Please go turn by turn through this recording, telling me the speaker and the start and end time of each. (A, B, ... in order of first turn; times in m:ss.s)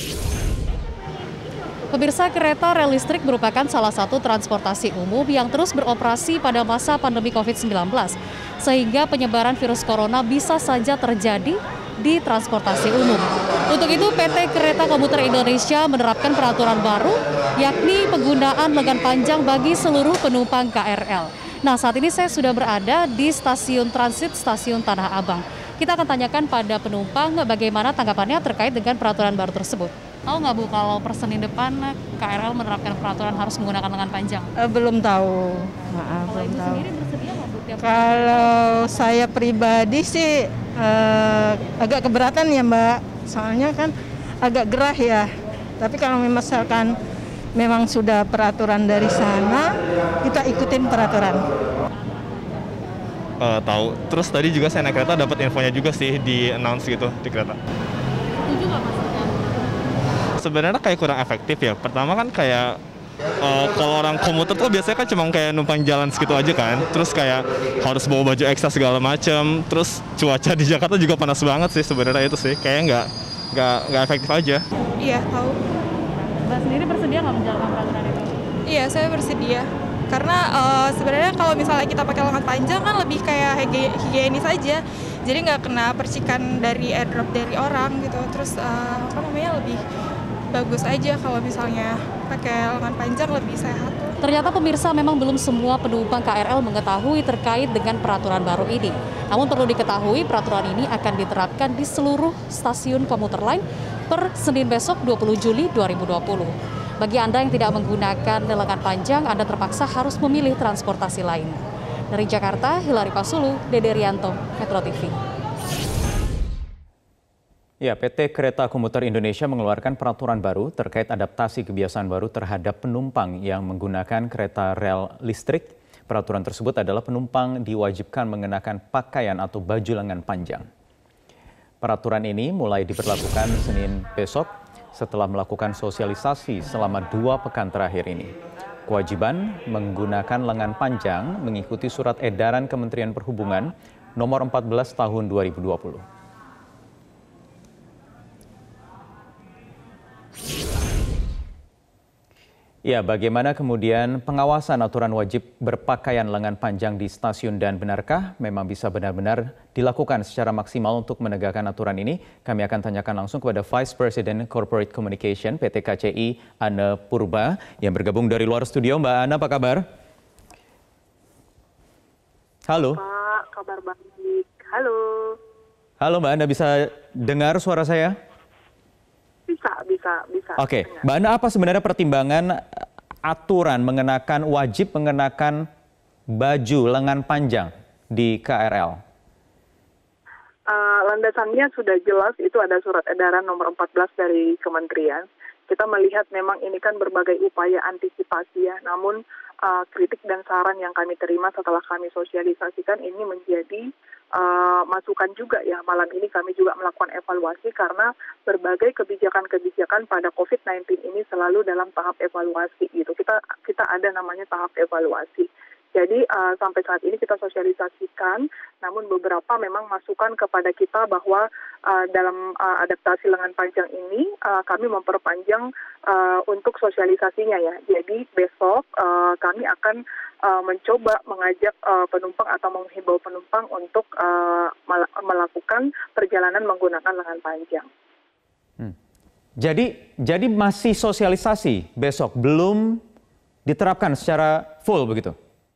0:01.9-0:34.5 A
0:34.6-0:36.8 B
0:36.2-0:39.1 A
0:37.8-0:45.3 B
0:45.8-0:46.9 B
0:47.5-0:51.4 B
0:53.4-0:57.6 C
0:58.5-0:59.0 A
1:00.4-1:02.8 C
1:03.4-1:14.6 C
1:15.0-1:15.6 D
1:16.3-1:18.4 A
1:18.6-1:29.8 D
1:30.5-1:34.1 D
1:34.2-1:51.6 A
1:52.1-1:55.2 A
1:57.8-2:10.7 E
2:11.8-2:18.3 E
2:18.9-2:26.0 E
2:32.8-2:49.8 E
2:52.7-2:53.0 E
2:52.9-2:55.4 F
2:56.0-2:58.1 E
2:59.5-3:01.0 F
3:00.6-3:05.6 E
3:06.3-3:09.0 E
3:10.7-3:57.9 F
3:59.6-4:03.0 E
4:03.6-4:05.4 E